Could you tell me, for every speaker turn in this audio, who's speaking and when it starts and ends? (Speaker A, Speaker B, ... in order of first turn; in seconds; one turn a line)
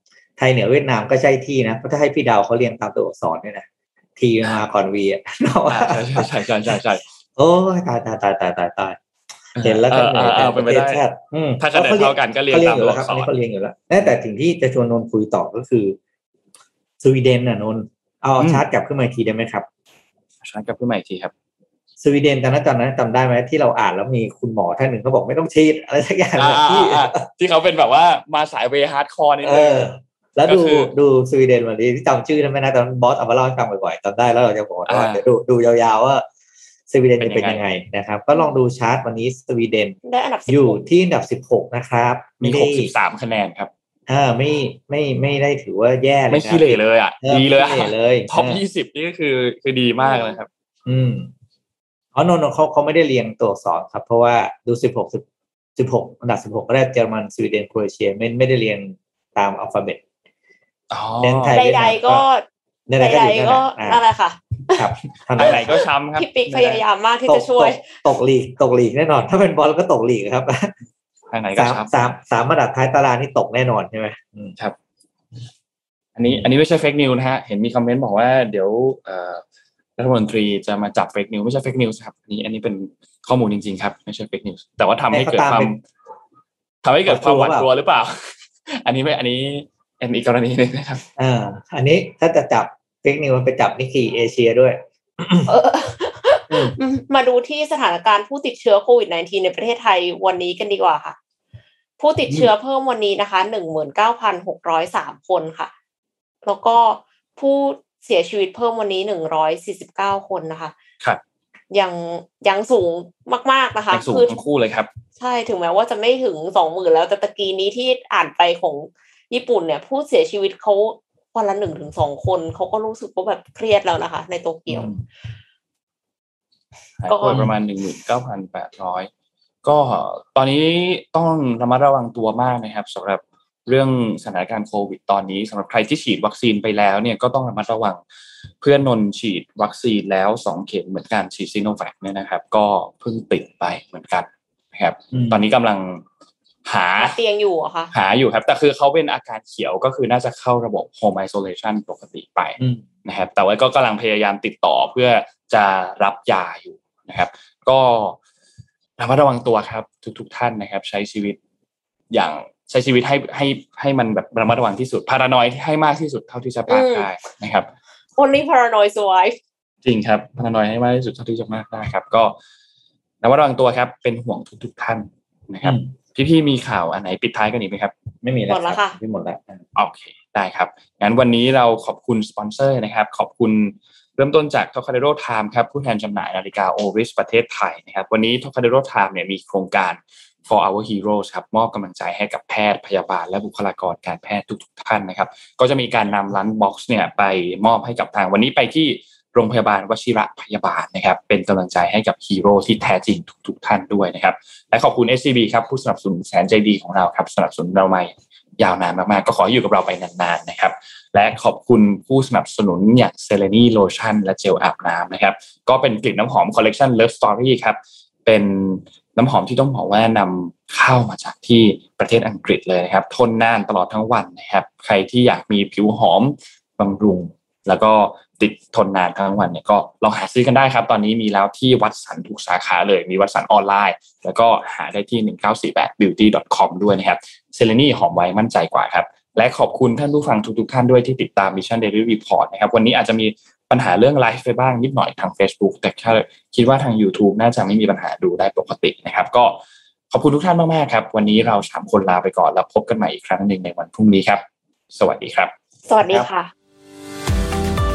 Speaker A: 0.4-3.7
Speaker A: 4.2-6.8
Speaker B: 5.7-7.0
Speaker A: 7.4-9.0
Speaker B: 9.6-11.1
Speaker A: 9.6-16.0
Speaker B: 11.6-13.3
Speaker A: 17.0-19.7
Speaker B: 18.4-18.6
Speaker B: 20.4-21.3
Speaker A: 22.0-27.2
Speaker B: 26.4-29.9
Speaker A: 29.4-36.2
Speaker B: 30.4-30.9
Speaker B: 34.9-35.2
Speaker A: 36.9-42.9
Speaker B: 37.2-37.6
Speaker C: 40.0-40.8
Speaker B: 42.4-43.7
Speaker A: 44.1-48.6
Speaker B: 46.3-50.5
Speaker C: 50.0-50.4
Speaker A: 50.9-51.3
Speaker A: 52.1-55.2
Speaker A: 55.8-60.0
Speaker B: 60.9-61.6
Speaker A: 61.2-62.2
Speaker C: 61.5-62.5
Speaker A: 62.9-64.0
Speaker C: 63.0-64.9
Speaker A: 64.8-65.8
Speaker B: 65.4-66.8
Speaker C: 66.2-68.0
Speaker A: 67.3-70.7
Speaker B: 71.3-71.9
Speaker A: 71.5-74.5
Speaker B: 76.2-79.4
Speaker B: 80.0-85.8
Speaker A: 85.1-85.7
Speaker B: 86.8-91.0
Speaker A: 87.1-87.7
Speaker A: 91.2-95.5
Speaker C: 95.5-101.2
Speaker C: 102.0-105.7
Speaker C: 106.4-110.7
Speaker C: 111.7-114.4
Speaker B: 113.9-114.9
Speaker C: 115.2-124.9
Speaker B: 124.7-125.0
Speaker B: 127.0-129.1
Speaker C: 127.1-127.5
Speaker B: 129.6-138.0
Speaker B: 138.6-146.0
Speaker A: 145.1-145.4
Speaker B: 146.7-147.2
Speaker C: 147.0-147.9
Speaker B: 147.9-158.2
Speaker A: 152.6-152.8
Speaker B: 159.0-161.4
Speaker B: 162.1-167.7
Speaker C: 166.7-167.1
Speaker C: 168.2-169.4
Speaker B: 169.8-172.4
Speaker B: 173.2-177.9
Speaker A: 175.6-175.9
Speaker A: 178.2-179.6
Speaker C: 178.5-179.0
Speaker B: 179.8-249.6
Speaker B: 250.1-255.5
Speaker C: 255.9-256.5